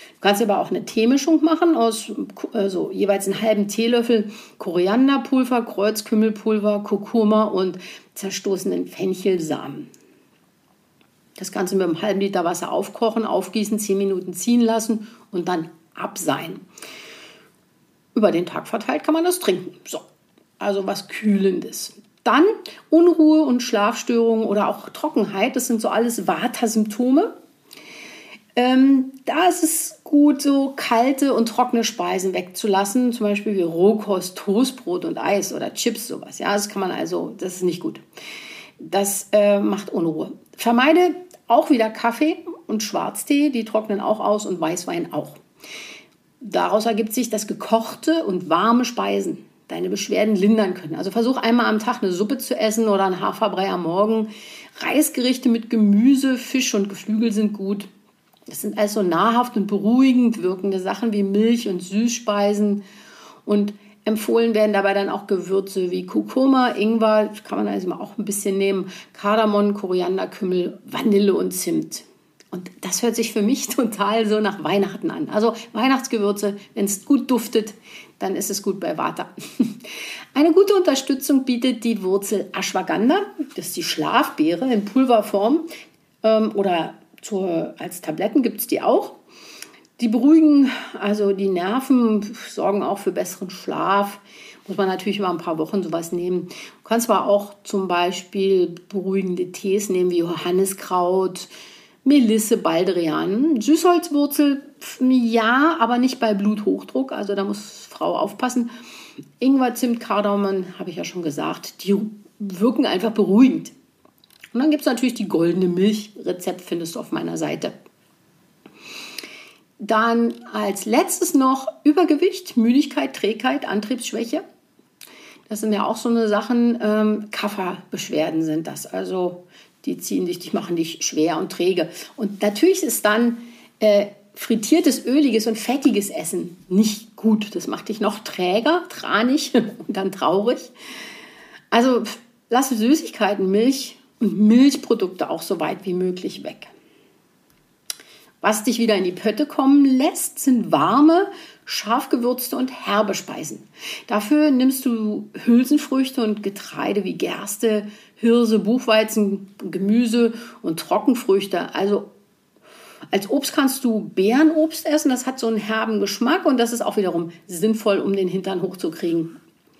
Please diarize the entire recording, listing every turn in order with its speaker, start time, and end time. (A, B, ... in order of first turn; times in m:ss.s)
0:00.2-0:09.9 A
0:11.4-0:16.6 A
0:18.1-0:20.0 A
0:20.6-0:27.3 A
0:28.6-0:38.0 A
0:38.8-0:45.4 A
0:46.4-0:57.9 A
0:58.5-1:02.8 A
1:03.5-1:25.7 A
1:26.2-1:29.2 A
1:30.0-1:41.5 A
1:42.0-1:48.7 A
1:49.4-1:53.7 A
1:54.5-1:57.7 A
1:59.8-2:04.4 A
2:05.5-2:20.7 A
2:21.7-2:26.7 A
2:28.4-2:42.1 A
2:43.1-2:49.4 A